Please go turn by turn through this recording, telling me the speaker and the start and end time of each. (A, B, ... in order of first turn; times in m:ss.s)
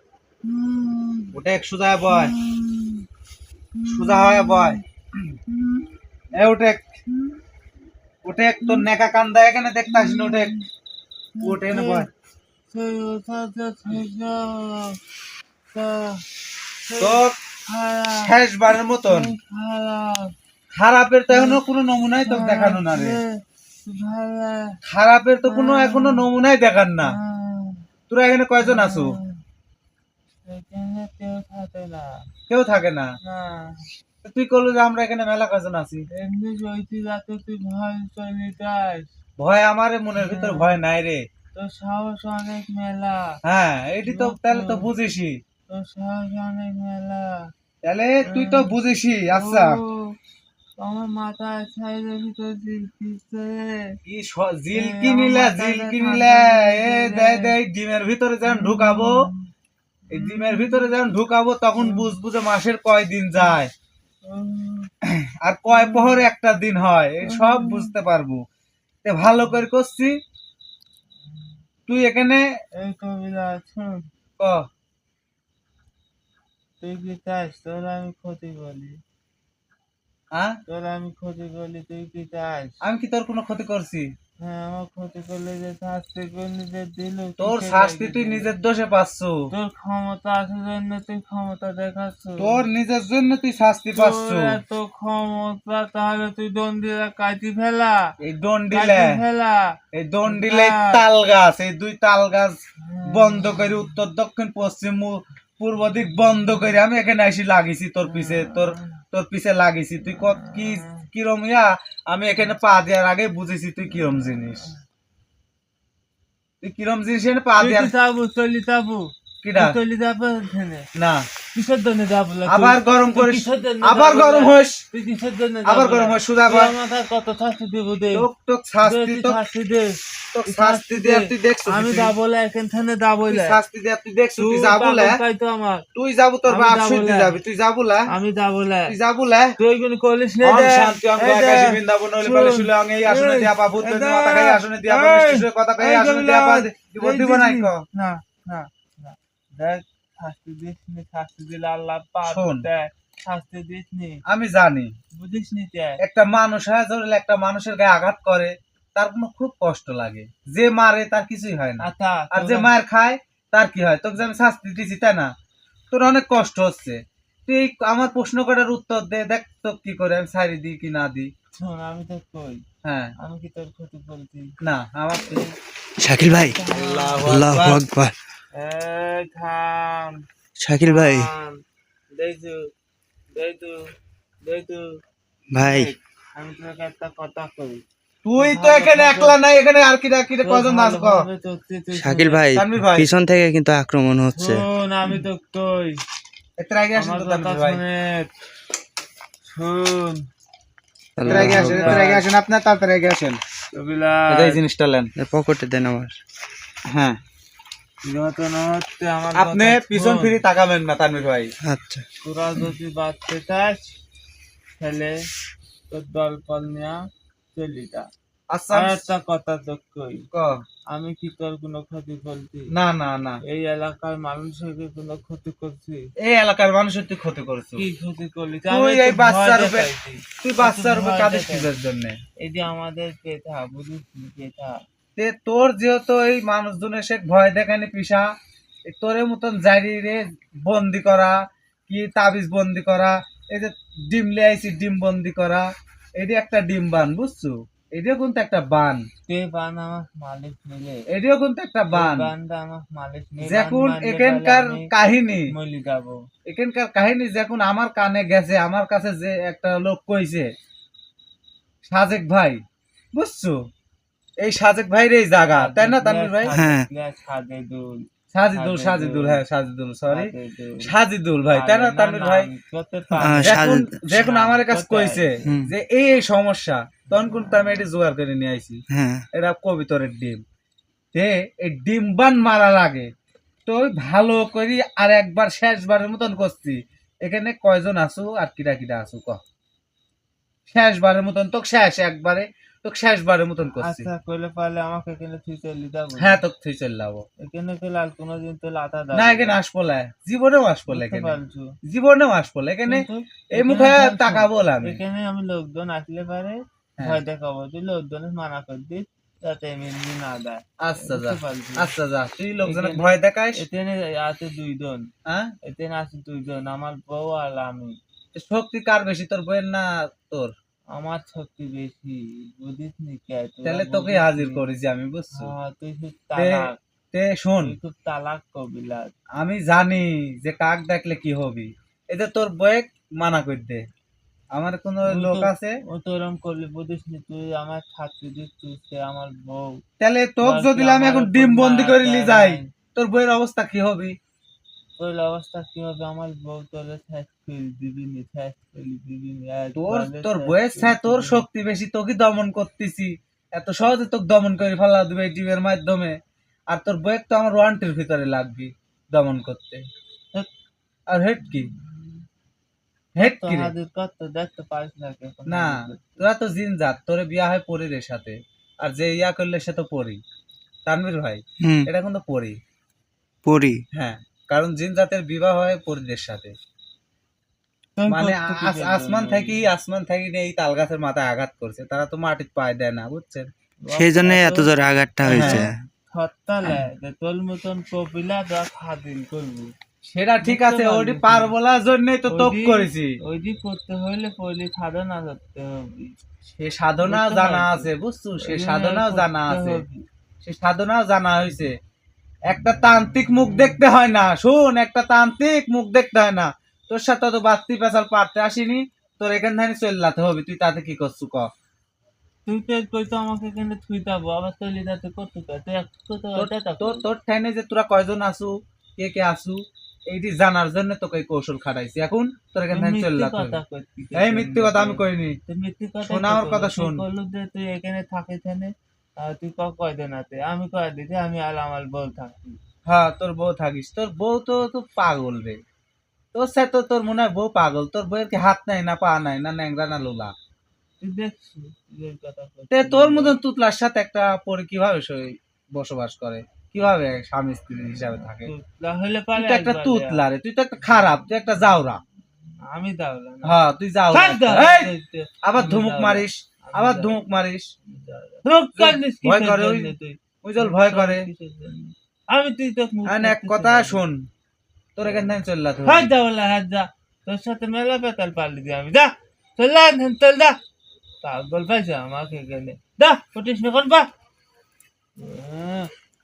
0:00.4-0:01.4 A
0:01.3-0:02.3 B
0:02.1-0:03.1 A
0:03.7-0:04.8 A
0:03.9-0:05.4 B
0:05.5-0:05.9 A
0:06.3-0:06.8 B
0:07.1-0:07.4 A
0:08.2-0:10.5 B
0:09.9-0:10.6 A
0:11.4-0:12.1 A
0:11.4-0:12.1 B
0:12.7-0:15.0 A
0:15.7-0:16.2 A
0:16.9-0:18.3 A
0:17.0-0:17.4 B
0:18.2-0:19.3 B
0:19.0-0:20.3 A
0:20.8-0:23.2 B
0:21.3-0:21.6 A
0:22.2-0:24.8 A
0:24.8-0:27.1 B
0:25.4-0:26.3 A
0:27.0-0:27.8 A
0:28.1-0:29.2 B
0:28.6-0:29.4 A
0:30.4-0:32.2 A
0:32.5-0:33.1 B
0:33.2-0:33.8 A
0:34.2-0:36.0 B
0:36.1-0:39.1 A
0:39.4-0:41.2 B
0:40.1-0:40.8 A
0:41.5-0:43.4 A
0:43.4-0:45.4 B
0:44.0-0:44.9 A
0:45.7-0:47.5 A
0:47.8-0:49.8 B
0:48.2-0:48.7 A
0:49.3-0:50.2 A
0:50.8-0:54.0 A
0:54.0-0:59.2 B
0:54.7-0:57.6 A
0:58.5-0:59.5 A
1:00.1-1:00.9 A
1:00.1-1:03.7 B
1:01.8-1:02.1 A
1:04.2-1:04.9 A
1:05.0-1:08.4 B
1:05.7-1:06.2 A
1:07.2-1:07.9 A
1:09.0-1:10.2 B
1:11.9-1:12.5 B
1:12.8-1:14.0 A
1:14.4-1:14.6 B
1:16.8-1:19.0 A
1:20.3-1:20.6 B
1:20.7-1:22.8 A
1:22.8-1:24.1 B
1:24.4-1:28.5 A
1:27.4-1:29.5 B
1:29.5-1:32.6 A
1:32.4-1:34.6 B
1:33.9-1:38.1 A
1:38.2-1:39.2 B
1:38.7-1:41.0 A
1:39.9-1:54.7 B
1:42.8-1:44.0 A
1:48.0-1:48.9 A
1:50.1-1:51.1 A
1:56.6-1:57.9 B
1:57.6-2:00.9 A
1:59.4-1:59.8 B
2:00.9-2:01.3 B
2:01.5-2:08.3 A
2:02.5-2:04.8 B
2:05.6-2:06.7 B
2:08.1-2:09.4 B
2:08.8-2:13.6 A
2:10.3-2:12.1 B
2:13.3-2:15.2 B
2:14.4-2:15.8 A
2:15.9-2:18.1 B
2:16.5-2:17.4 A
2:18.1-2:19.0 A
2:18.9-2:19.6 B
2:19.6-2:34.2 A
2:20.4-2:27.8 B
2:32.2-2:32.6 B
2:34.2-2:34.9 B
2:35.1-2:36.0 A
2:36.0-2:45.3 B
2:41.8-2:42.7 A
2:45.9-2:51.3 B
2:51.6-2:52.6 A
2:52.8-2:53.1 B
2:53.2-2:54.5 A
2:54.6-2:55.4 B
2:55.2-2:55.6 A
2:56.0-2:56.6 C
2:56.4-2:57.3 A
2:56.7-2:57.8 B
2:57.2-2:58.1 C
2:58.5-3:00.2 A
3:00.6-3:01.3 C
3:00.8-3:01.6 A
3:02.1-3:02.7 A
3:03.3-3:03.9 A
3:04.4-3:05.0 A
3:05.5-3:05.9 C
3:05.6-3:07.8 A
3:08.2-3:11.2 B
3:08.4-3:09.4 A
3:10.4-3:12.4 A
3:11.9-3:14.6 C
3:12.5-3:13.1 B
3:14.3-3:16.0 A
3:16.6-3:17.8 B
3:17.0-3:18.3 A
3:19.5-3:20.2 A
3:21.2-3:22.0 C
3:21.2-3:22.2 A
3:21.2-3:23.4 B
3:23.8-3:24.6 A
3:24.3-3:25.1 B
3:25.2-3:26.2 C
3:26.9-3:27.2 B
3:28.0-3:30.4 A
3:29.3-3:31.5 B
3:31.6-3:32.0 C
3:32.2-3:34.0 A
3:34.8-3:35.2 A
3:35.9-3:37.0 A
3:37.5-3:38.1 A
3:38.5-3:39.0 B
3:38.7-3:40.3 A
3:40.3-3:40.6 B
3:40.9-3:42.7 A
3:42.7-3:43.4 B
3:43.4-3:46.1 A
3:46.2-3:47.8 B
3:47.8-3:51.7 A
3:48.7-3:49.9 B
3:50.4-3:52.2 B
3:52.4-3:54.8 A
3:55.2-3:58.3 B
3:58.9-4:09.0 B
4:09.3-4:11.1 A
4:11.1-4:12.3 B
4:11.9-4:14.9 A
4:13.4-4:15.5 B
4:15.5-4:16.2 A
4:16.4-4:20.5 B
4:21.8-4:22.6 B
4:23.1-4:23.6 B
4:24.4-4:26.5 B
4:25.6-4:29.4 A
4:26.5-4:26.9 C
4:28.3-4:32.5 B
4:30.1-4:30.9 A
4:31.5-4:35.4 A
4:33.2-4:33.9 C
4:33.4-4:38.8 B
4:35.4-4:35.7 C
4:37.1-4:37.9 A
4:38.9-4:39.2 C
4:39.3-4:40.4 B
4:41.1-4:43.1 B
4:43.6-4:49.4 B
4:50.7-4:54.1 B
4:53.8-4:56.4 A
4:56.2-4:57.2 B
4:57.4-4:59.6 A
4:59.1-5:05.0 B
5:00.9-5:01.8 A
5:02.9-5:11.9 A
5:10.8-5:13.6 B
5:12.6-5:15.1 A
5:15.2-5:15.5 B
5:15.6-5:18.0 A
5:18.3-5:20.5 B
5:20.9-5:24.6 A
5:23.6-5:25.5 B
5:25.3-5:26.8 A
5:26.4-5:27.8 B
5:27.6-5:29.1 A
5:29.4-5:33.9 B
5:34.5-5:35.8 B
5:35.1-5:39.8 A
5:40.0-5:44.1 B
5:40.4-5:42.7 A
5:45.0-5:51.4 A
5:49.8-5:56.2 B
5:56.7-5:59.8 B
6:01.1-6:01.7 B
6:01.4-6:02.1 A
6:03.2-6:03.7 B
6:03.3-6:06.2 A
6:05.5-6:10.2 B
6:10.9-6:12.6 B
6:11.6-6:11.9 C
6:13.4-6:13.8 C
6:13.9-6:16.5 B
6:18.0-6:19.6 A
6:18.1-6:23.5 B
6:23.8-6:24.7 A
6:24.0-6:25.8 C
6:25.3-6:25.6 B
6:25.3-6:29.7 A
6:30.0-6:33.2 B
6:30.4-6:31.5 A
6:32.3-6:36.2 A
6:36.6-6:39.8 B
6:37.0-6:40.0 A
6:40.4-6:41.8 B
6:42.5-6:51.5 B
6:52.4-6:57.0 A
6:56.4-7:03.6 B
7:02.7-7:12.6 A
7:04.1-7:05.4 B
7:06.0-7:07.0 B
7:12.9-7:15.6 B
7:16.3-7:20.3 B
7:21.0-7:23.4 A
7:22.7-7:28.5 B
7:28.4-7:30.2 A
7:29.4-7:32.0 B
7:32.7-7:33.5 A
7:33.4-7:37.7 B
7:34.1-7:37.2 A
7:37.9-7:44.0 A
7:38.8-7:39.9 B
7:40.4-7:41.3 B
7:43.1-7:44.2 B
7:45.0-7:46.1 B
7:45.8-7:50.6 A
7:51.2-7:54.1 A
7:55.2-7:55.9 A